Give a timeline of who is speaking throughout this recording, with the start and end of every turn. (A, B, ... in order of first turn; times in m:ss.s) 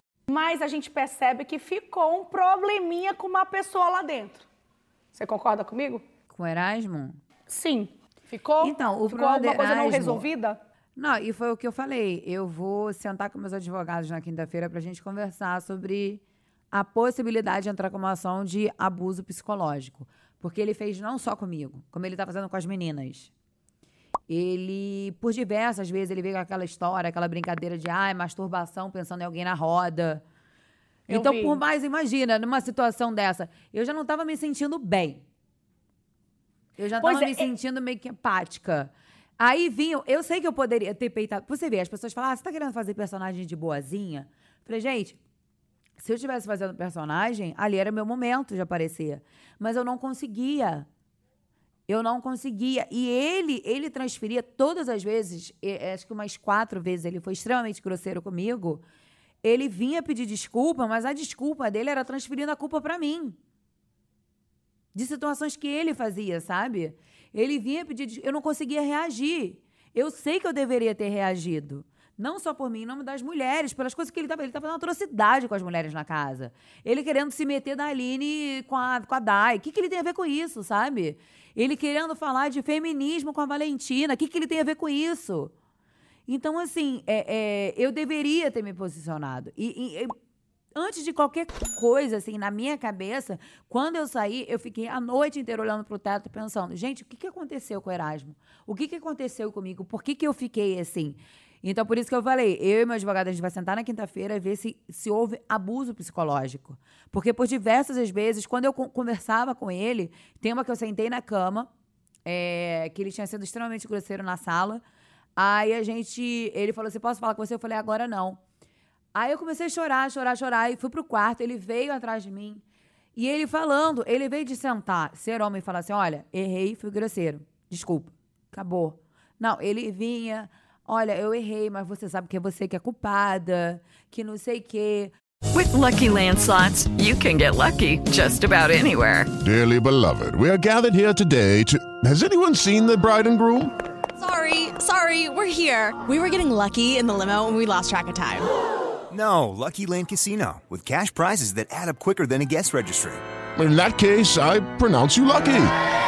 0:00.3-0:04.5 A
0:05.1-0:06.0 A
0:06.3-0:07.2 B
0:07.5-0:10.6 A
0:08.6-0:10.3 B
0:11.0-0:23.3 B
0:24.3-0:30.2 B
0:31.1-0:35.2 B
0:31.1-0:31.6 A
0:36.8-0:45.2 B
0:37.0-0:37.5 A
0:46.0-0:50.9 B
0:51.9-0:58.8 B
0:59.4-1:03.4 B
1:04.9-1:25.5 B
1:26.3-1:30.1 B
1:30.8-1:51.7 B
1:52.3-1:54.8 B
1:55.4-1:58.4 B
1:59.2-2:02.6 B
2:03.2-2:15.1 B
2:15.5-2:19.3 C
2:19.4-2:23.7 D
2:24.2-2:28.5 E
2:29.1-2:33.2 F
2:33.6-2:35.7 D